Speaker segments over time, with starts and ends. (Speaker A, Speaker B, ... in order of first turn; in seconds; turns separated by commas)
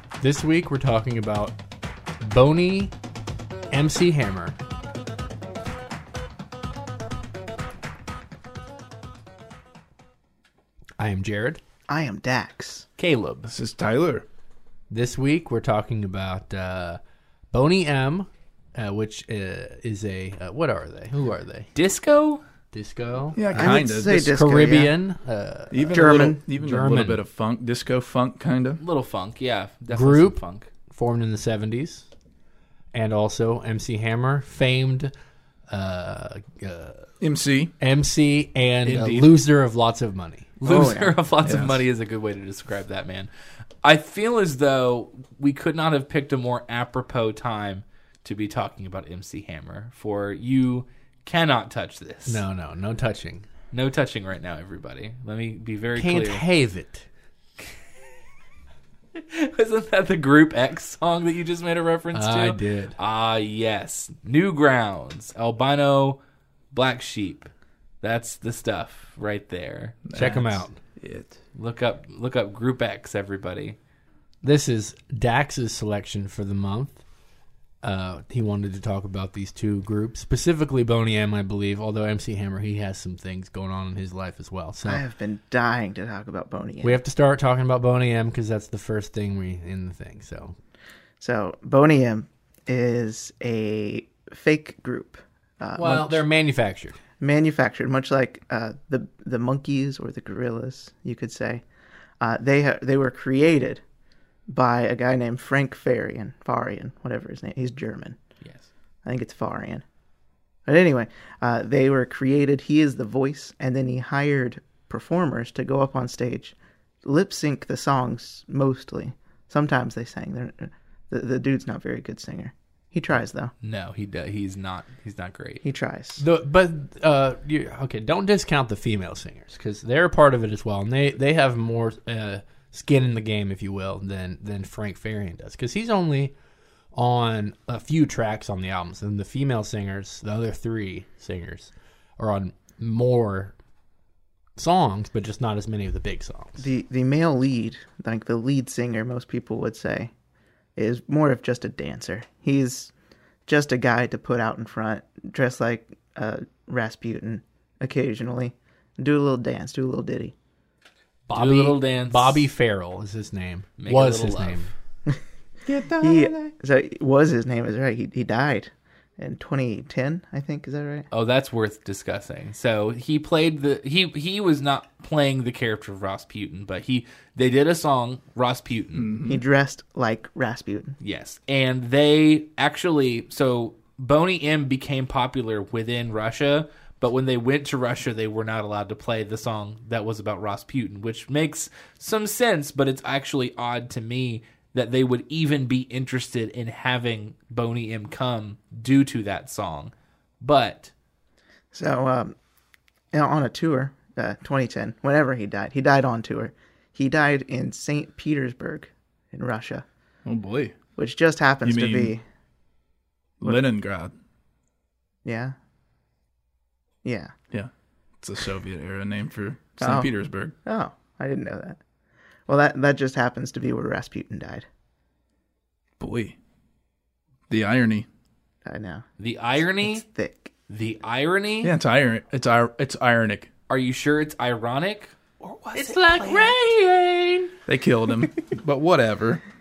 Speaker A: 0.2-1.6, Speaker A: 2.2-2.9, Speaker A: 3.7-4.6, Speaker A: 11.0-11.6, Speaker B: 11.9-12.8, Speaker C: 13.0-13.5, Speaker D: 13.5-14.2, Speaker A: 14.9-17.0, Speaker A: 17.5-21.7, Speaker C: 21.7-22.4, Speaker A: 22.7-27.2, Speaker D: 23.3-24.3, Speaker B: 23.5-24.9, Speaker D: 25.7-28.8, Speaker B: 25.9-26.4, Speaker C: 28.8-30.7, Speaker A: 29.9-32.1, Speaker A: 32.9-35.1, Speaker A: 35.7-37.1, Speaker D: 37.2-37.7, Speaker A: 37.8-40.7, Speaker C: 38.8-39.4, Speaker C: 40.6-43.3, Speaker B: 40.6-41.1, Speaker D: 41.4-41.8, Speaker C: 43.8-52.4, Speaker A: 52.2-53.5, Speaker C: 53.7-56.4, Speaker A: 55.9-57.0, Speaker C: 59.1-66.2, Speaker A: 62.1-63.0, Speaker C: 66.7-67.5, Speaker C: 68.0-70.0, Speaker D: 70.0-71.3, Speaker A: 70.1-70.7, Speaker C: 71.5-73.8, Speaker A: 74.4-77.0, Speaker A: 77.8-85.0, Speaker B: 84.8-87.0, Speaker A: 86.8-90.5, Speaker B: 91.2-96.2, Speaker A: 95.7-97.0, Speaker B: 97.2-101.6, Speaker B: 102.2-103.8, Speaker B: 104.5-108.2, Speaker C: 108.4-108.7, Speaker B: 109.0-109.8, Speaker B: 110.7-123.5, Speaker C: 123.6-125.6, Speaker B: 125.6-126.2, Speaker A: 126.2-136.3, Speaker A: 136.9-143.5, Speaker A: 144.6-146.7, Speaker B: 146.6-150.1, Speaker B: 150.8-152.9, Speaker B: 153.4-160.3, Speaker A: 161.3-164.7, Speaker C: 161.3-162.5, Speaker C: 163.8-164.7, Speaker D: 165.7-166.4, Speaker B: 165.9-171.1, Speaker C: 171.1-179.2, Speaker D: 178.9-179.4, Speaker B: 179.2-180.9, Speaker C: 181.0-200.9, Speaker B: 201.7-202.3, Speaker B: 203.1-209.8, Speaker D: 210.2-210.8, Speaker B: 210.9-212.2, Speaker D: 211.6-212.2, Speaker D: 213.4-214.1, Speaker B: 215.2-215.5, Speaker B: 217.0-217.3, Speaker D: 218.2-220.5, Speaker B: 219.8-220.1, Speaker B: 220.6-221.8, Speaker B: 222.5-224.7, Speaker D: 226.0-226.3, Speaker D: 227.5-228.1, Speaker B: 228.6-229.1, Speaker C: 229.2-230.0, Speaker B: 229.6-230.5, Speaker C: 230.7-231.7, Speaker D: 231.6-233.5, Speaker C: 233.7-235.1, Speaker C: 235.7-237.5, Speaker D: 237.7-239.4